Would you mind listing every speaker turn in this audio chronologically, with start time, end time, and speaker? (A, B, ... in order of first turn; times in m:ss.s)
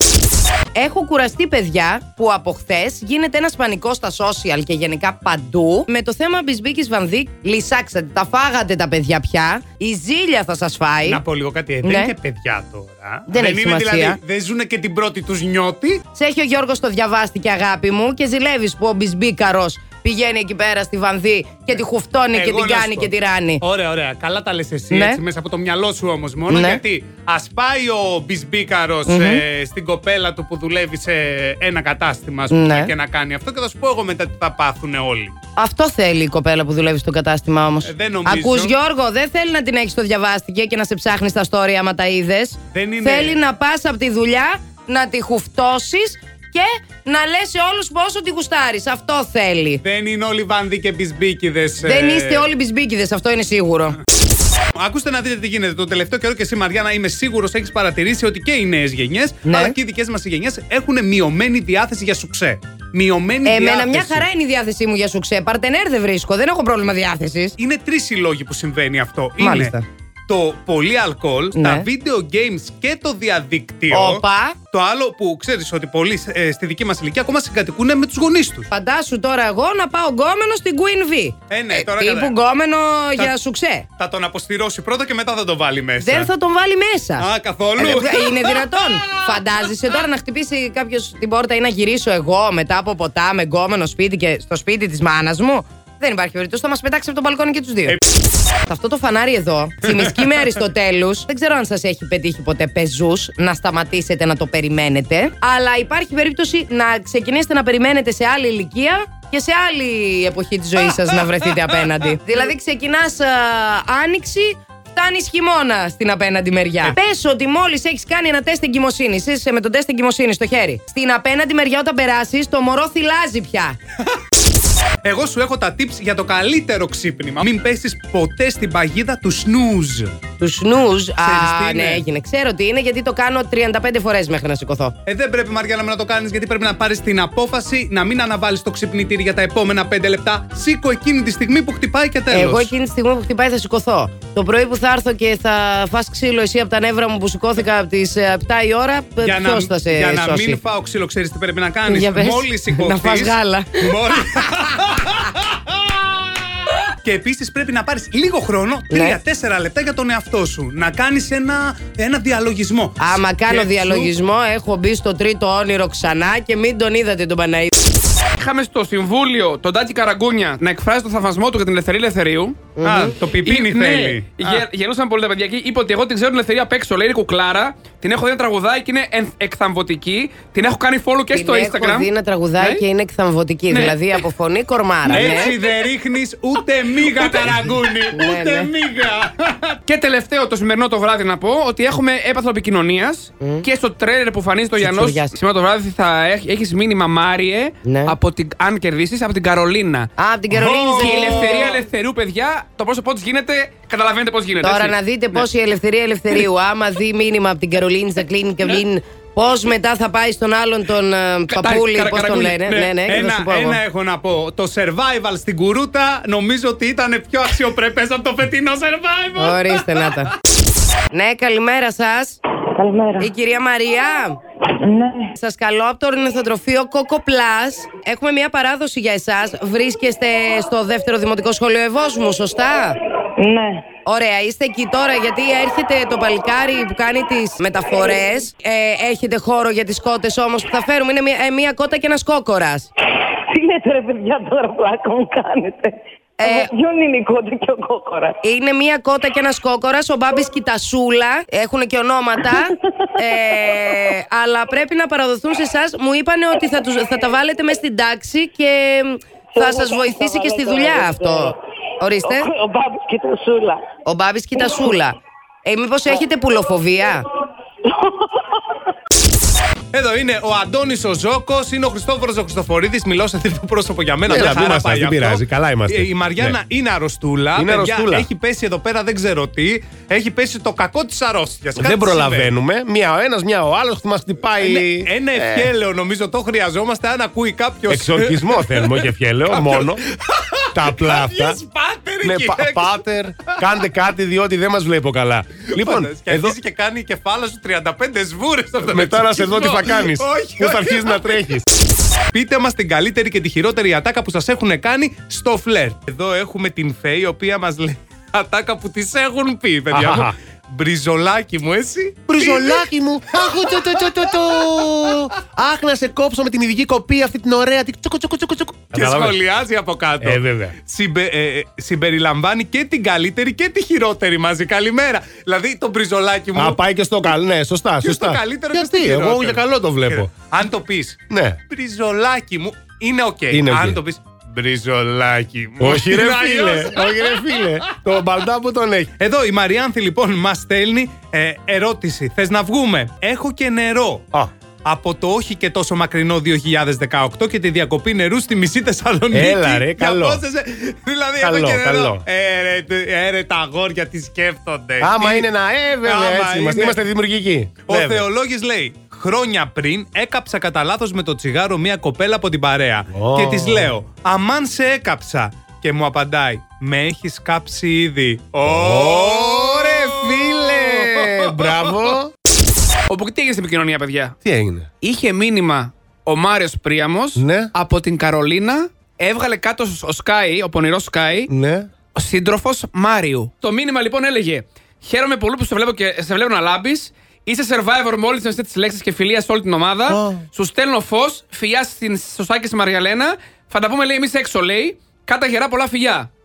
0:00.7-0:11.2 A
0:11.0-0:16.0 B
0:11.8-0:12.1 A
0:13.3-0:14.2 A
0:16.1-0:23.6 A
0:22.3-0:35.4 B
0:24.9-0:25.2 A
0:26.5-0:26.8 A
0:29.1-0:29.4 A
0:32.5-0:32.9 A
0:35.6-0:49.8 A
0:37.8-0:38.7 B
0:42.7-0:43.4 B
0:49.8-0:52.5 B
0:51.8-0:54.0 A
0:54.8-1:04.3 B
0:59.4-0:59.8 A
1:03.4-1:07.6 A
1:07.6-1:09.8 B
1:09.4-1:09.8 A
1:10.3-1:18.7 B
1:11.5-1:11.9 A
1:13.9-1:14.6 A
1:18.7-1:23.8 A
1:21.5-1:22.3 B
1:24.0-1:26.3 B
1:26.0-1:38.0 A
1:27.2-1:29.4 B
1:38.7-2:03.8 A
2:05.0-2:10.2 B
2:10.4-2:14.9 A
2:11.2-2:12.0 B
2:15.1-2:22.7 B
2:22.3-2:30.6 A
2:29.2-2:36.3 B
2:31.9-2:34.5 A
2:37.0-2:44.1 B
2:38.9-2:39.2 A
2:43.0-2:47.7 A
2:48.4-2:52.7 C
2:52.8-2:53.2 A
2:52.8-2:54.6 B
2:53.4-3:02.8 C
3:01.3-3:05.6 A
3:03.7-3:04.2 C
3:05.1-3:05.4 C
3:05.1-3:09.8 B
3:07.1-3:07.6 C
3:08.1-3:08.7 A
3:09.9-3:20.1 C
3:14.8-3:15.4 A
3:17.8-3:18.2 A
3:20.2-3:21.8 A
3:20.5-3:21.8 B
3:21.0-3:25.4 C
3:24.6-3:33.8 A
3:31.5-3:33.0 C
3:33.0-3:40.1 B
3:39.4-3:40.3 A
3:41.1-3:42.4 A
3:42.8-3:43.3 D
3:43.2-3:44.4 A
3:44.8-3:45.3 D
3:45.4-3:53.0 A
3:53.4-3:53.8 D
3:54.0-4:02.9 A
4:03.5-4:08.4 D
4:06.4-4:06.7 A
4:08.4-4:22.5 A
4:19.6-4:21.5 D
4:22.2-4:23.8 D
4:24.0-4:27.2 A
4:29.9-4:42.5 B
4:34.3-4:36.6 E
4:37.6-4:38.3 E
4:41.8-4:45.7 E
4:44.6-4:53.6 B
4:47.9-4:50.0 E
4:50.7-4:51.6 E
4:52.2-4:56.6 E
4:55.8-5:01.6 B
4:58.9-5:01.6 E
5:02.3-5:15.2 B
5:09.9-5:10.3 E
5:12.3-5:19.4 E
5:18.9-5:26.8 B
5:20.2-5:20.5 E
5:26.6-5:30.3 E
5:28.0-5:38.0 B
5:31.3-5:31.6 E
5:33.5-5:34.0 E
5:35.8-5:39.1 E
5:39.2-5:44.2 B
5:44.8-5:55.5 B
5:49.3-5:50.4 E
5:51.4-5:52.2 E
5:55.0-5:58.3 E
5:56.0-5:57.0 B
5:57.9-6:12.1 B
6:03.1-6:03.9 E
6:08.7-6:12.3 E
6:13.1-6:14.4 C
6:14.4-6:14.9 E
6:15.0-6:21.5 C
6:17.4-6:17.7 E
6:21.5-6:21.9 E
6:22.2-6:36.3 C
6:30.1-6:30.4 E